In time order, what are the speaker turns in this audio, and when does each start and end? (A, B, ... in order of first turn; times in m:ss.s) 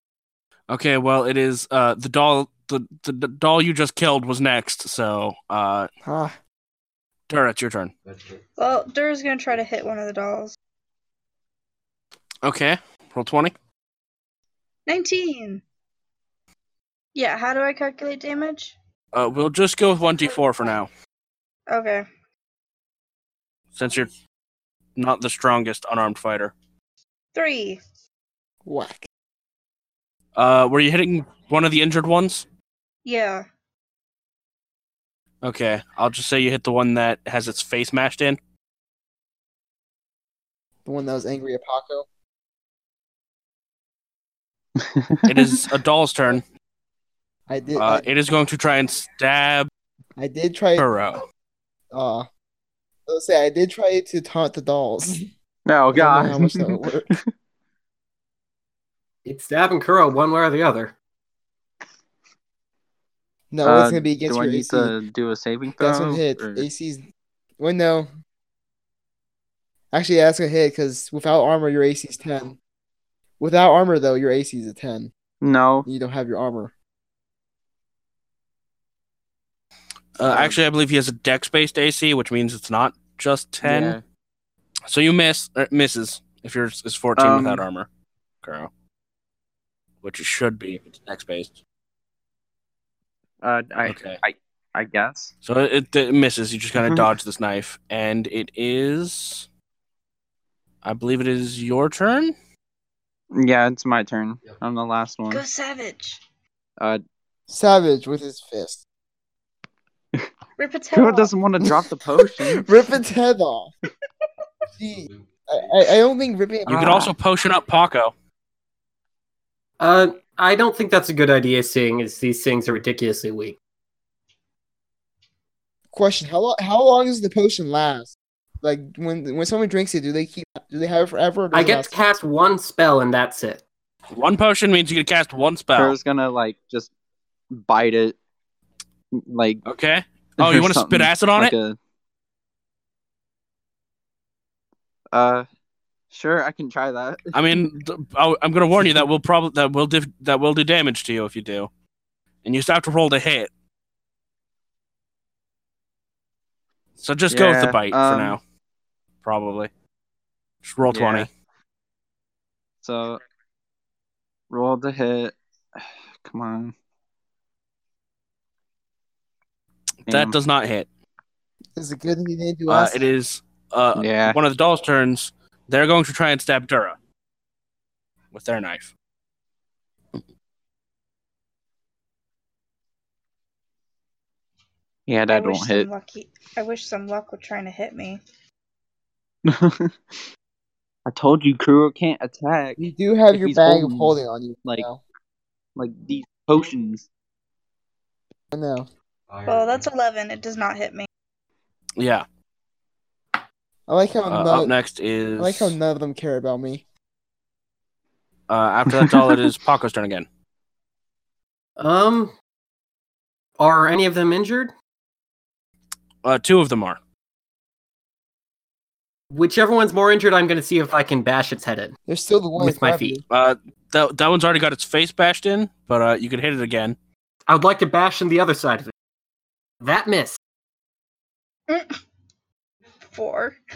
0:00.7-0:05.9 A
0:06.0-0:06.4 B
0:07.3-0:07.9 A
0:08.6-0:10.6 C
0:12.4-0:13.5 A
0:14.9-0:15.6 C
0:17.2-0:18.8 C
0:19.1-0:20.9 A
0:21.7-0:22.1 C
0:23.8-0:24.1 A
0:25.0-0:26.5 A
0:27.3-0:27.8 C
0:28.6-0:29.1 B
0:30.4-0:32.5 A
0:33.0-0:33.5 C
0:35.4-0:38.4 A
0:40.8-0:42.1 B
0:44.8-0:45.5 D
0:45.3-0:46.4 A
0:47.5-0:48.0 B
0:47.8-0:49.7 A
0:50.2-0:50.9 B
0:50.8-0:51.2 A
0:51.9-0:52.3 B
0:53.1-0:55.3 B
0:55.7-0:56.8 D
0:55.9-0:57.1 B
0:59.2-1:00.9 E
1:03.5-1:05.0 B
1:03.6-1:06.7 D
1:05.8-1:07.0 B
1:07.6-1:08.1 B
1:09.9-1:12.6 B
1:13.4-1:15.1 B
1:15.4-1:15.9 D
1:15.9-1:16.7 B
1:20.2-1:24.0 A
1:20.3-1:20.5 B
1:23.6-1:24.0 D
1:24.9-1:27.9 A
1:27.2-1:27.6 D
1:28.4-1:28.7 A
1:30.0-1:31.6 A
1:33.4-1:35.3 D
1:33.8-1:34.2 A
1:35.4-1:39.5 A
1:36.8-1:37.1 D
1:40.8-1:42.4 A
1:43.3-1:45.4 D
1:45.3-1:46.2 C
1:47.5-1:48.8 B
1:50.6-1:51.3 C
1:50.9-1:52.6 D
1:52.6-1:53.7 B
1:54.8-1:57.1 B
1:56.7-1:58.1 A
1:56.7-1:57.1 D
1:59.8-2:03.6 E
2:05.9-2:12.0 B
2:11.5-2:13.6 E
2:14.1-2:16.0 A
2:15.7-2:16.9 D
2:17.5-2:18.2 D
2:19.2-2:19.6 D
2:19.7-2:21.6 A
2:20.4-2:21.8 D
2:25.1-2:25.5 D
2:26.1-2:27.7 D
2:27.3-2:31.7 A
2:32.4-2:33.5 A
2:37.0-2:38.4 A
2:37.3-2:38.4 D
2:39.2-2:39.7 A
2:40.6-2:41.3 A
2:40.9-2:41.3 D
2:42.8-2:43.2 D
2:44.5-2:46.7 D
2:50.1-2:50.4 D
2:50.1-2:50.9 A
2:51.8-2:53.1 B
2:52.7-2:57.0 A
2:54.0-2:54.4 D
2:58.3-2:58.9 A
3:05.1-3:05.9 D
3:05.3-3:08.2 C
3:09.5-3:10.2 D
3:11.1-3:14.9 D
3:12.8-3:15.0 B
3:15.8-3:17.1 D
3:18.5-3:18.9 B
3:19.4-3:21.1 C
3:22.0-3:22.2 A
3:23.9-3:24.7 B
3:24.3-3:25.8 A
3:25.4-3:26.8 B
3:28.5-3:30.3 A
3:29.0-3:29.4 D
3:31.8-3:32.3 E
3:33.6-3:34.7 E
3:36.2-3:37.0 A
3:39.3-3:42.0 E
3:42.1-3:43.2 B
3:42.6-3:43.2 E
3:43.3-3:47.0 A
3:47.5-3:48.9 E
3:49.8-3:50.4 E
3:51.7-3:52.0 C
3:53.1-3:53.6 C